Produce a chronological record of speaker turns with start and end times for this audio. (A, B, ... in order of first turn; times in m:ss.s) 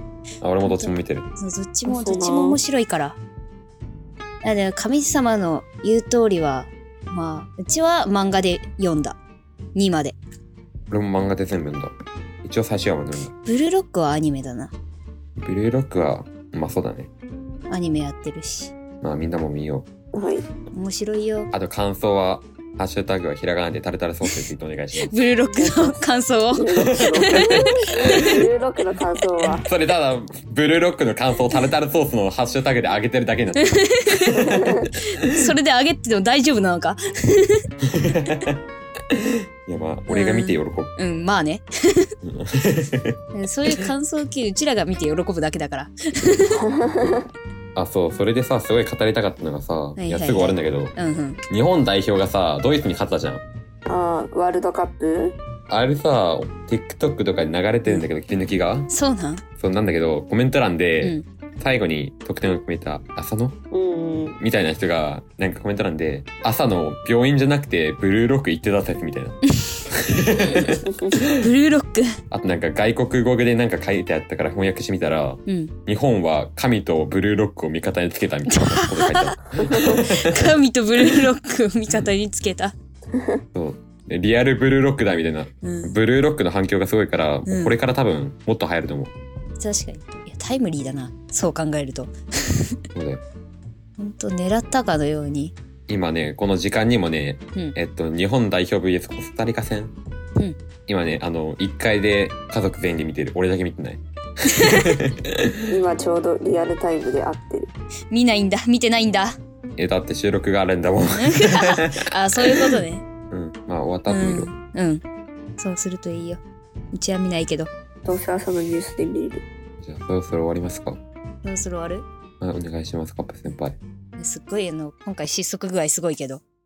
0:00.4-0:01.3 A
0:00.6-0:03.2 B
0:01.9-0:02.6 C
0:04.4-0:09.2 B
0:09.8-0:10.2 B
0:10.9-0:13.3 A
0:13.4-0:14.7 B
0:15.4-0:17.1 A
0:17.7-0:18.7 B
0:19.0-0:19.9 A
0:20.1-0:20.4 C
0:20.7-0:21.5 B
0:21.5-0:25.2 A
0:25.0-0:28.3 B
0:25.5-0:26.0 C
0:26.5-0:29.7 C
0:26.8-0:28.3 A
0:29.6-0:35.4 A
0:33.6-0:37.6 B
0:34.4-0:34.9 C
0:37.8-0:38.6 A
0:39.1-0:40.9 A
0:40.1-0:42.1 B
0:42.2-0:43.2 A
0:43.3-0:46.6 B
0:46.6-0:47.2 C
0:47.8-0:51.0 A
0:50.0-0:51.4 B
0:51.5-0:53.4 A
0:53.9-0:55.4 C
0:55.7-0:58.9 A
0:58.9-0:59.4 B
0:59.6-1:03.6 A
1:03.7-1:04.4 C
1:04.4-1:11.4 A
1:10.9-1:11.2 C
1:11.2-1:12.1 B
1:12.3-1:20.5 A
1:15.5-1:15.7 B
1:18.5-1:22.7 B
1:23.6-1:29.1 A
1:25.6-1:26.0 B
1:27.5-1:27.8 B
1:29.6-1:32.8 B
1:32.9-1:33.2 A
1:34.0-1:35.6 B
1:35.9-1:39.9 A
1:40.9-1:45.7 A
1:44.5-1:45.0 B
1:45.7-1:47.7 C
1:48.1-1:49.4 B
1:49.8-1:52.8 A
1:51.2-1:53.0 B
1:53.3-1:54.5 A
1:54.1-1:55.0 B
1:55.6-1:56.4 B
1:56.9-1:57.7 B
1:58.0-1:59.4 C
1:59.8-2:01.0 A
2:01.4-2:02.0 B
2:02.4-2:03.8 A
2:04.2-2:06.4 B